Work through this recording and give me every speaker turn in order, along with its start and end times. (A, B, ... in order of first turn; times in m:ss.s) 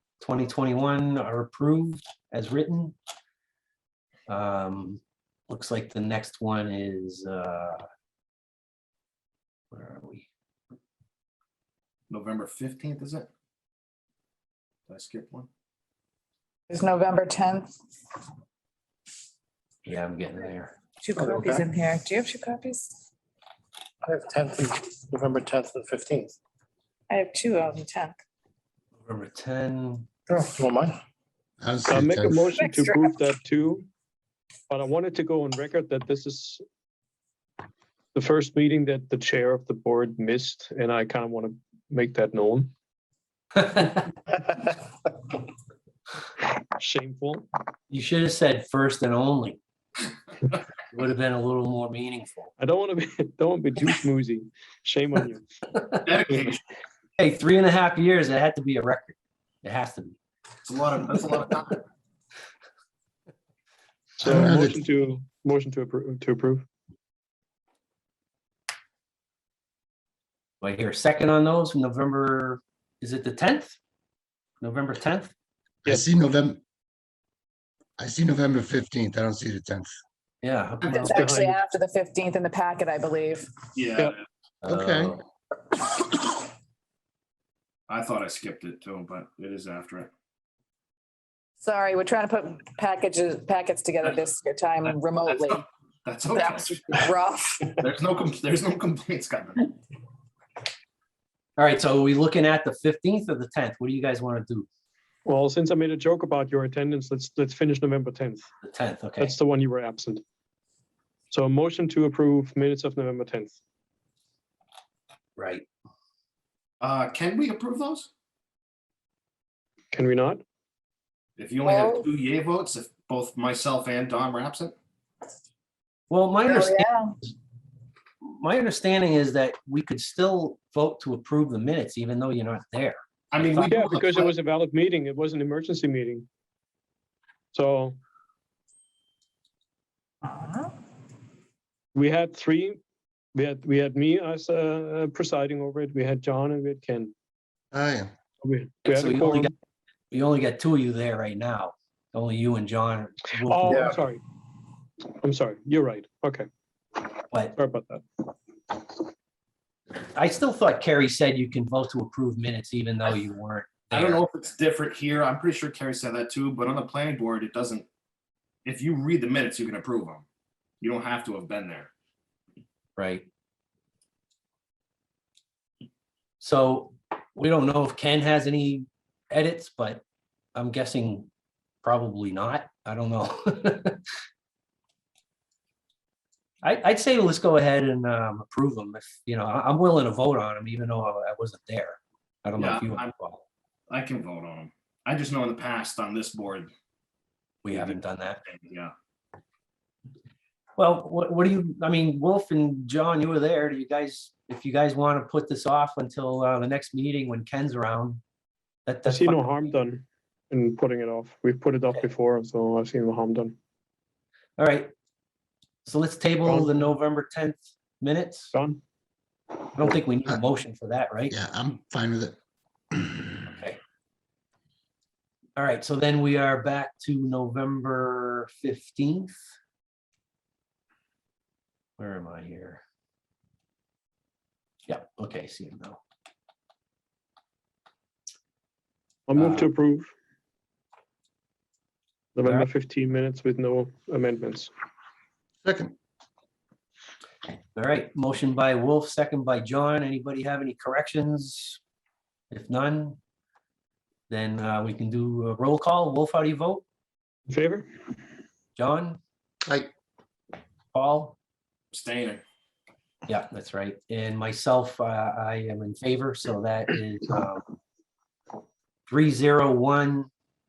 0:00.2-0:03.0 A
0:04.3-0:07.8 A
0:09.7-0:10.3 A
0:12.1-0:13.3 B
0:14.9-0:15.5 B
0:16.7-0:17.7 C
0:19.8-0:20.7 A
0:21.0-0:22.9 C
0:21.2-0:21.6 B
0:21.3-0:21.6 D
0:24.0-0:26.3 D
0:25.4-0:26.1 B
0:27.1-0:28.2 C
0:29.0-0:30.1 A
0:30.3-0:30.9 D
0:31.6-0:32.6 E
0:31.9-0:33.9 F
0:32.6-0:33.1 C
0:34.7-0:36.6 F
0:38.2-0:42.7 F
0:43.6-0:44.1 A
0:46.8-0:47.5 F
0:47.9-0:49.6 A
0:50.9-0:52.5 A
0:52.6-0:55.4 F
0:56.0-0:56.6 B
0:56.3-0:56.6 F
0:57.2-1:00.2 A
1:00.7-1:01.8 B
1:04.2-1:06.7 F
1:04.2-1:04.8 E
1:10.6-1:13.8 A
1:14.6-1:15.3 A
1:15.8-1:16.6 E
1:18.0-1:19.9 E
1:20.4-1:21.2 A
1:20.8-1:23.7 C
1:21.0-1:21.6 F
1:23.8-1:24.2 B
1:24.6-1:25.2 A
1:24.7-1:25.2 E
1:27.9-1:30.1 B
1:31.6-1:35.6 C
1:36.0-1:36.9 B
1:36.3-1:37.8 C
1:37.7-1:39.7 B
1:41.6-1:44.7 A
1:45.2-1:48.4 F
1:48.6-1:49.4 A
1:49.2-1:50.2 F
1:51.3-1:53.6 F
1:55.4-1:55.7 A
1:56.8-1:58.1 B
1:59.9-2:00.4 F
2:01.4-2:04.8 B
2:01.6-2:02.1 C
2:06.1-2:06.8 A
2:06.5-2:07.2 C
2:08.3-2:13.8 A
2:13.3-2:14.3 B
2:13.6-2:16.3 F
2:17.5-2:18.0 F
2:20.3-2:20.7 C
2:22.0-2:22.8 F
2:23.3-2:27.1 F
2:27.7-2:28.1 E
2:28.4-2:29.5 F
2:28.8-2:29.5 A
2:30.1-2:33.9 A
2:33.5-2:34.2 F
2:33.7-2:34.0 B
2:35.2-2:36.5 F
2:37.6-2:38.0 F
2:40.1-2:44.2 A
2:43.9-2:47.9 B
2:48.7-2:50.2 B
2:50.8-2:51.9 B
2:53.0-2:53.3 A
2:56.4-3:00.0 A
3:00.6-3:01.3 A
3:01.8-3:04.0 A
3:06.6-3:13.4 A
3:12.6-3:13.1 B
3:13.9-3:16.7 B
3:17.6-3:18.4 A
3:17.7-3:18.9 B
3:20.8-3:28.2 A
3:28.9-3:29.6 A
3:29.1-3:33.6 F
3:34.6-3:34.9 A
3:35.8-3:38.6 A
3:36.4-3:36.8 F
3:38.5-3:38.8 F
3:39.8-3:41.4 A
3:41.3-3:42.4 E
3:42.9-3:43.4 E
3:43.5-3:43.8 A
3:45.6-3:49.4 A
3:52.0-3:52.8 A
3:54.9-3:56.0 A
3:59.3-4:00.1 F
3:59.4-3:59.7 A
4:02.4-4:04.7 F
4:02.4-4:02.7 A
4:05.6-4:06.0 E
4:07.8-4:11.8 A
4:12.5-4:13.2 A
4:14.3-4:16.8 A
4:17.5-4:17.9 F
4:18.8-4:19.2 A
4:20.9-4:21.4 A
4:21.9-4:22.4 B
4:23.3-4:27.6 A
4:29.1-4:30.3 A